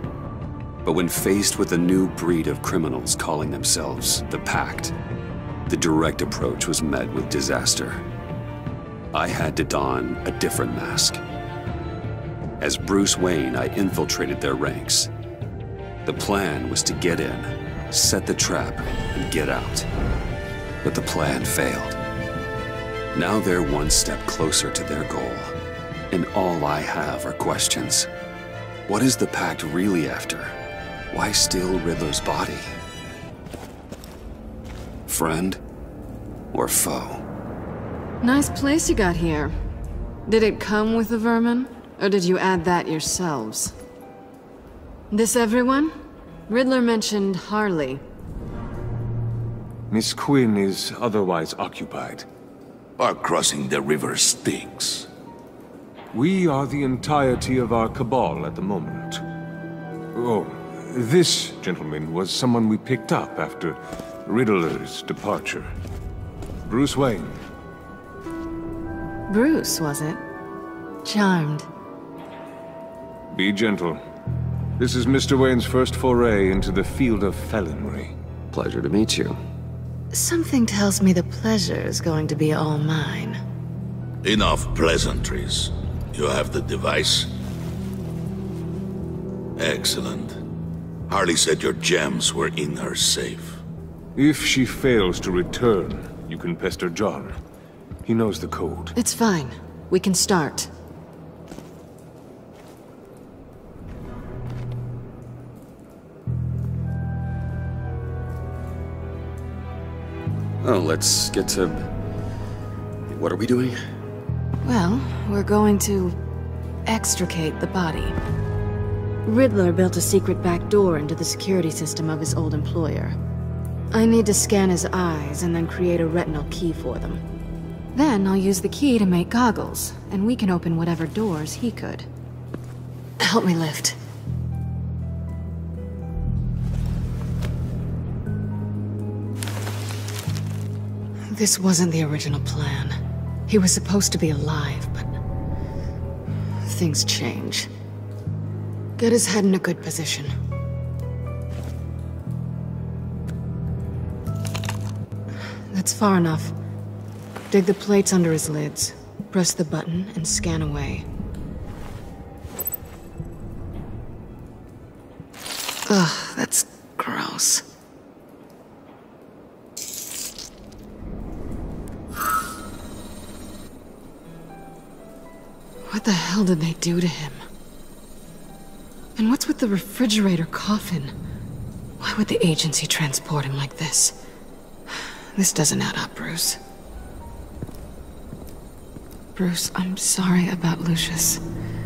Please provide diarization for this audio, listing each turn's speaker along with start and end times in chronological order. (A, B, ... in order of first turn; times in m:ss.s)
0:00.8-0:04.9 A
0:05.7-0:08.0 A
0:09.1-0:11.2 A
0:12.6-0:15.1 A
0:16.0-0:19.9 A
0:20.8-0:22.0 A
0:23.1-0:25.5 A
0:26.1-0:28.1 A
0:28.9-0:30.6 A
0:31.1-0:32.7 A
0:35.1-0:35.6 A
0:36.5-0:37.2 A
0:38.2-0:39.5 B
0:40.3-0:43.7 B
0:45.1-0:45.9 B
0:46.5-0:48.0 B
0:49.9-0:52.3 C
0:53.0-0:55.1 D
0:56.1-0:59.2 C
1:00.1-1:05.6 C
1:06.6-1:07.4 C
1:09.3-1:10.2 B
1:11.0-1:11.7 B
1:13.3-1:14.0 C
1:14.8-1:18.1 C
1:18.5-1:19.4 A
1:20.1-1:23.4 B
1:24.2-1:27.3 D
1:29.6-1:30.4 D
1:31.1-1:33.6 D
1:34.2-1:37.4 C
1:38.0-1:38.9 C
1:39.0-1:40.7 B
1:50.6-1:51.9 A
1:53.1-1:53.8 A
1:54.6-1:56.2 B
1:56.8-1:58.2 B
1:59.2-2:03.2 B
2:03.9-2:07.2 B
2:07.9-2:12.1 B
2:13.2-2:14.0 B
2:21.3-2:23.0 B
2:23.5-2:25.1 B
2:26.7-2:27.7 B
2:29.0-2:30.3 B
2:35.7-2:36.5 B
2:37.5-2:41.0 B
2:45.9-2:47.6 B
2:55.9-2:57.4 B
2:59.2-3:01.1 B
3:02.0-3:04.2 B
3:04.9-3:06.6 B
3:09.4-3:11.4 B